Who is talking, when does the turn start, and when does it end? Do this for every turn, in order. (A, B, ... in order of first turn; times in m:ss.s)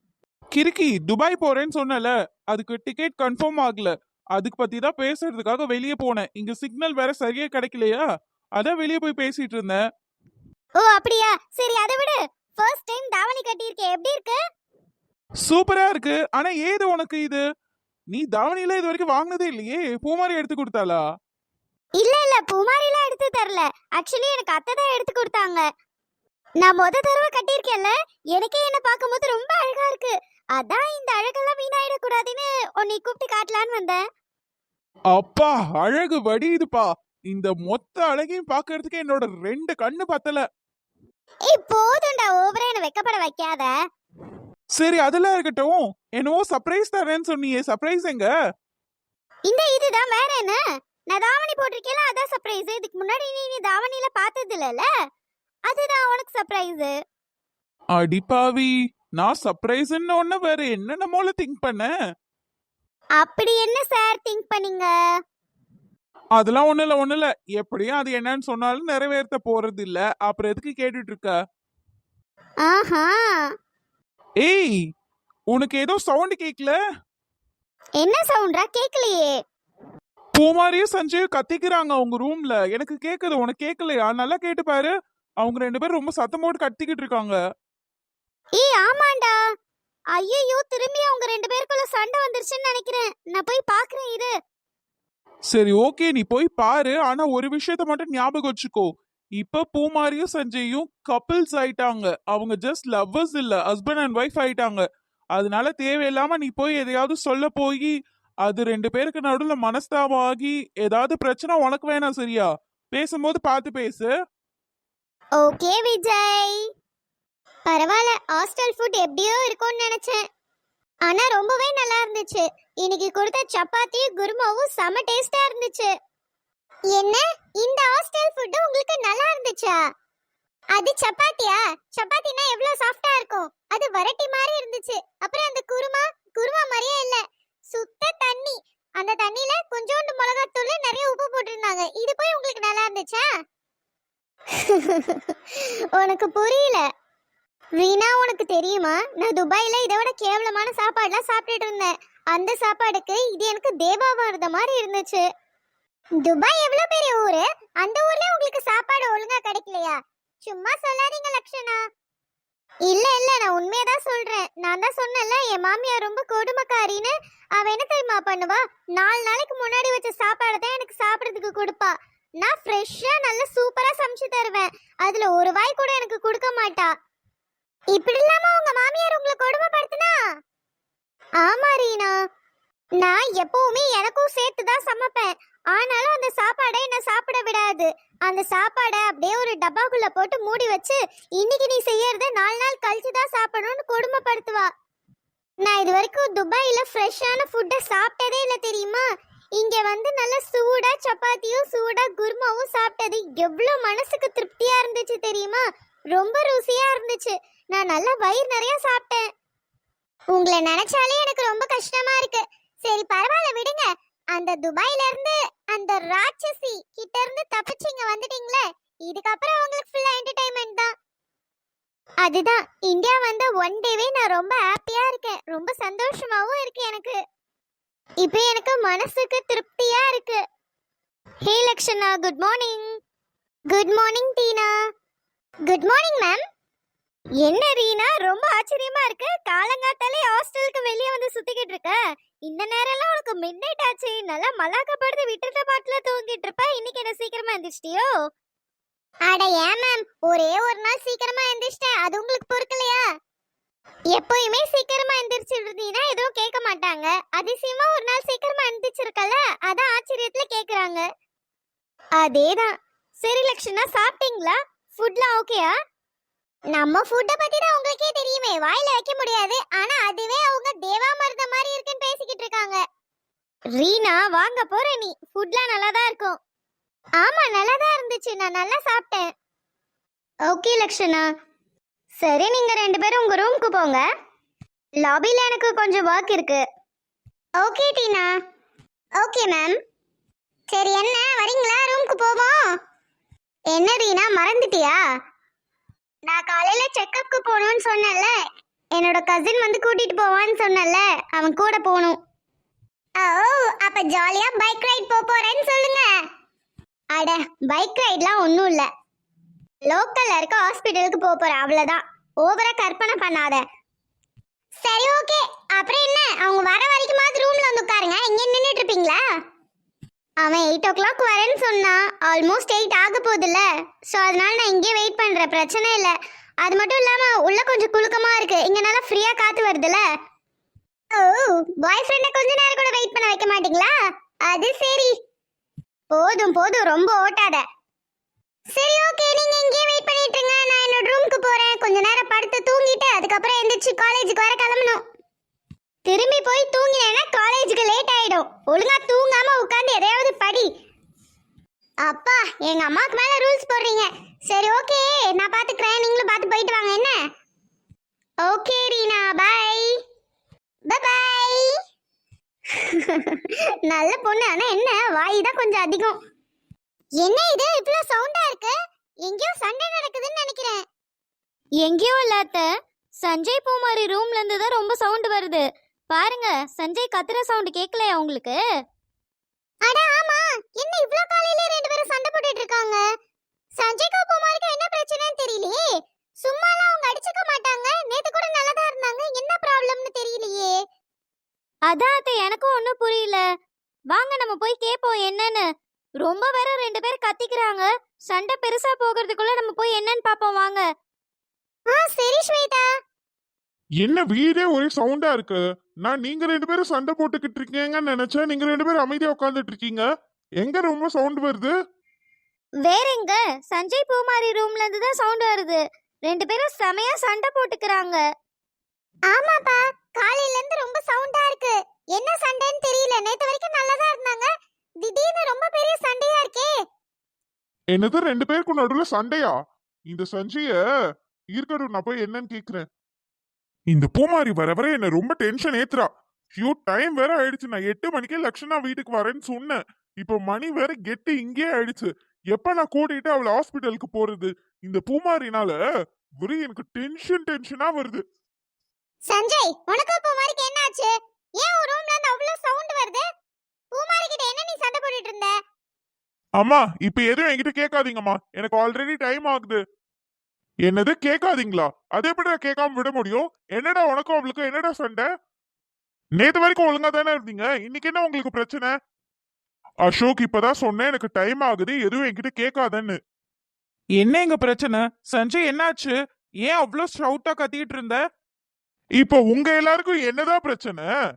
0:00.5-0:08.0 A
0:08.6-0:09.8 A
0:10.8-0:14.4 B
0:15.4-0:17.4 A
0:18.1-0:21.0 A
0:22.0-0:25.6 B
0:26.6-0:34.0 B
0:35.1-0:40.4 A
0:41.5-0:43.7 B
0:44.7-0:48.3 A
0:49.5-0:50.6 B
0:51.1-0:54.8 B
0:55.7-0:56.9 B
0:58.0-1:01.9 A
1:03.2-1:04.9 B
1:06.4-1:11.3 A
1:12.6-1:13.4 B
1:14.4-1:14.7 A
1:15.5-1:16.7 A
1:18.0-1:19.3 B
1:20.4-1:27.4 A
1:28.5-1:29.4 B
1:30.1-1:34.3 B
1:35.5-1:38.9 A
1:39.4-1:44.8 A
1:45.4-1:47.9 A
1:48.4-1:54.1 A
1:55.4-1:56.6 B
1:57.7-2:00.2 B
2:01.0-2:05.9 B
2:06.9-2:09.8 B
2:10.7-2:23.2 B
2:24.6-2:25.3 B
2:25.9-2:26.8 B
2:27.8-2:35.2 B
2:36.2-2:41.8 B
2:42.9-2:56.9 B
2:57.9-3:00.1 B
3:01.4-3:02.1 B
3:03.0-3:14.7 B
3:15.6-3:19.0 B
3:19.6-3:25.6 B
3:26.1-3:29.2 B
3:30.3-3:40.9 B
3:42.2-3:47.2 B
3:48.2-3:50.4 B
3:51.4-3:52.9 B
3:53.7-3:54.7 B
3:55.6-3:56.4 B
3:57.4-4:02.0 B
3:59.6-4:01.7 C
4:02.5-4:07.9 B
4:02.5-4:08.1 C
4:09.3-4:13.0 B
4:14.1-4:21.0 B
4:22.2-4:25.7 B
4:26.7-4:32.8 B
4:33.8-4:36.4 B
4:35.5-4:36.0 C
4:37.2-4:39.3 B
4:40.5-4:41.3 B
4:42.2-4:44.0 B
4:45.0-4:46.6 B
4:47.6-4:48.3 B
4:49.2-4:49.8 B
4:50.7-4:52.6 B
4:53.7-4:55.0 B
4:56.3-4:58.3 B
4:58.9-5:02.2 B
5:03.2-5:06.1 B
5:07.1-5:08.9 B
5:09.8-5:13.6 B
5:14.8-5:19.2 B
5:20.4-5:30.0 B
5:31.1-5:33.9 B
5:34.5-5:35.1 B
5:36.1-5:37.6 B
5:38.7-5:45.0 B
5:46.0-5:50.7 B
5:52.0-5:57.1 B
5:58.4-5:59.9 B
6:00.9-6:01.7 B
6:02.7-6:06.2 B
6:07.2-6:08.7 B
6:09.2-6:10.8 B
6:11.8-6:12.6 C
6:13.2-6:18.6 C
6:17.5-6:18.5 B
6:19.8-6:23.0 B
6:23.8-6:25.8 B
6:26.4-6:30.8 B
6:31.9-6:33.4 C
6:34.1-6:35.6 C
6:34.5-6:35.5 B
6:36.2-6:40.8 C
6:36.3-6:37.8 B
6:38.6-6:40.7 B
6:41.9-6:42.8 B
6:44.0-6:50.0 D
6:50.6-6:51.7 D
6:52.8-6:58.2 C
6:52.8-6:55.8 B
6:56.3-6:58.1 B
6:59.3-7:04.5 B
7:05.0-7:06.7 B
7:07.9-7:09.5 D
7:10.1-7:10.8 D
7:11.5-7:12.8 D
7:13.9-7:25.8 D
7:26.4-7:28.2 D
7:29.3-7:33.2 B
7:33.9-7:35.5 B
7:36.6-7:39.8 D
7:40.8-7:45.3 D
7:46.4-7:48.9 D
7:50.0-7:53.2 D
7:54.2-7:58.2 A
7:59.2-8:01.1 D